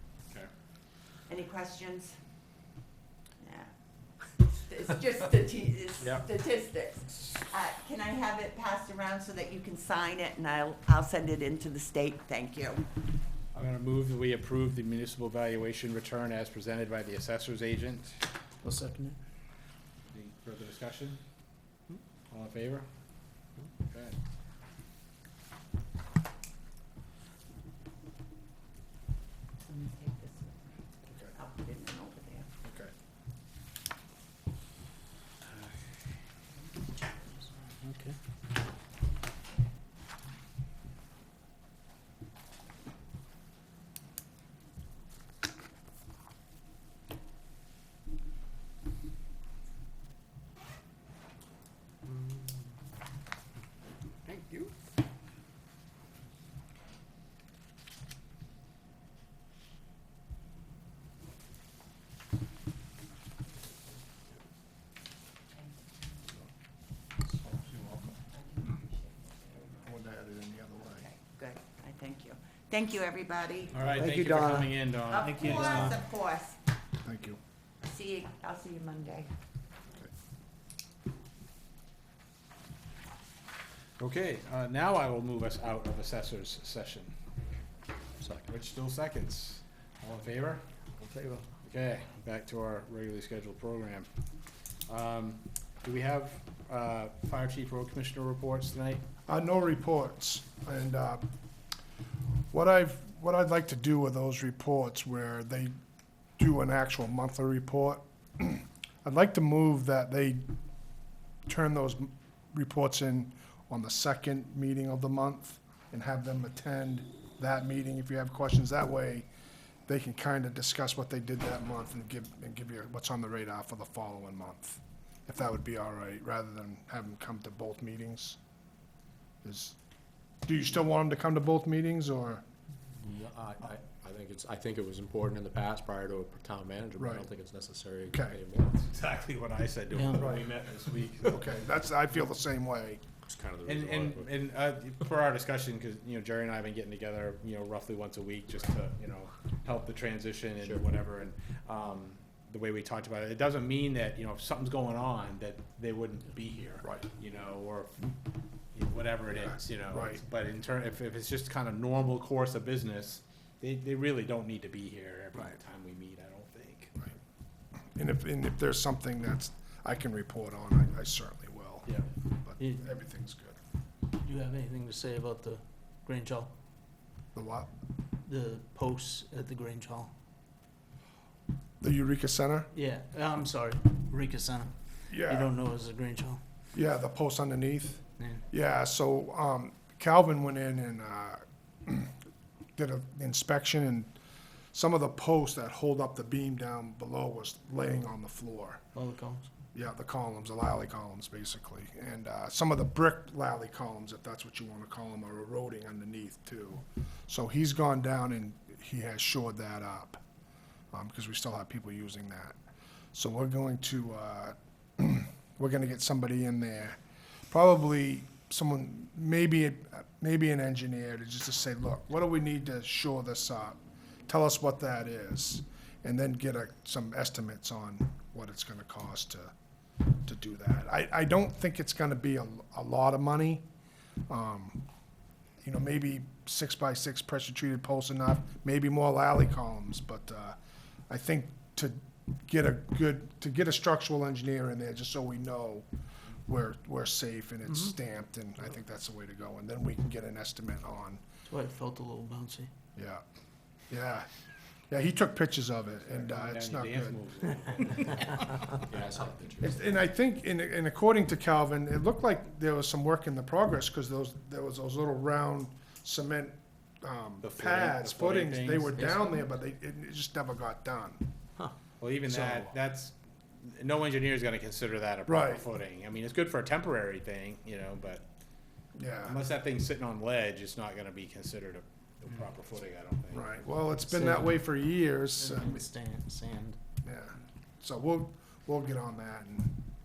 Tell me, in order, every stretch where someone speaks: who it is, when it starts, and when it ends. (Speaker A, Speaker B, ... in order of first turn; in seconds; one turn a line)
Speaker A: 1.3-2.2
Speaker A: 3.4-12.9
Speaker B: 6.0-6.3
Speaker B: 13.5-18.2
Speaker C: 18.6-19.2
Speaker B: 20.1-21.2
Speaker B: 22.3-22.9
Speaker B: 23.9-24.2
Speaker A: 29.6-30.8
Speaker D: 31.1-31.3
Speaker A: 31.3-32.5
Speaker D: 32.6-32.9
Speaker C: 37.8-38.2
Speaker B: 54.3-54.7
Speaker A: 65.5-66.2
Speaker D: 67.4-68.1
Speaker A: 68.2-70.0
Speaker D: 69.8-71.1
Speaker A: 70.8-73.8
Speaker B: 73.7-76.0
Speaker A: 75.1-76.6
Speaker D: 77.0-77.4
Speaker A: 77.8-79.3
Speaker B: 84.0-87.1
Speaker E: 88.2-88.5
Speaker B: 88.5-90.6
Speaker E: 91.0-91.5
Speaker B: 91.6-94.1
Speaker B: 94.9-99.0
Speaker D: 99.3-101.3
Speaker D: 102.5-105.7
Speaker D: 106.4-110.4
Speaker D: 111.5-119.3
Speaker D: 119.9-128.4
Speaker D: 129.4-129.8
Speaker D: 130.5-132.4
Speaker E: 133.0-138.9
Speaker D: 137.0-137.3
Speaker D: 138.1-138.4
Speaker B: 138.9-141.4
Speaker C: 139.9-140.3
Speaker D: 140.2-140.5
Speaker D: 141.3-143.0
Speaker E: 143.2-144.3
Speaker B: 143.6-158.2
Speaker B: 158.7-167.0
Speaker D: 159.3-160.2
Speaker D: 167.9-173.6
Speaker C: 172.6-172.8
Speaker C: 174.2-176.5
Speaker D: 177.3-177.7
Speaker C: 178.2-180.1
Speaker D: 181.8-182.7
Speaker C: 182.7-186.4
Speaker D: 185.1-185.5
Speaker D: 186.8-192.1
Speaker D: 192.8-194.1
Speaker D: 194.7-198.8
Speaker C: 198.9-199.5
Speaker D: 199.8-210.2
Speaker D: 210.9-212.6
Speaker D: 213.1-229.5
Speaker D: 230.2-233.7
Speaker D: 234.3-234.8
Speaker D: 235.6-240.6
Speaker D: 241.1-245.9
Speaker D: 246.5-251.2
Speaker C: 251.5-252.7
Speaker D: 253.0-253.2
Speaker D: 253.9-254.3
Speaker D: 254.9-257.2
Speaker B: 256.1-258.5
Speaker E: 258.7-259.8
Speaker D: 259.6-271.3
Speaker B: 267.4-269.2
Speaker C: 269.0-269.5
Speaker B: 272.0-278.3
Speaker D: 272.3-272.7
Speaker D: 275.3-275.6
Speaker D: 279.0-279.4
Speaker B: 279.2-283.6
Speaker D: 283.3-285.8
Speaker C: 284.1-284.6
Speaker C: 285.4-286.8
Speaker D: 287.0-289.8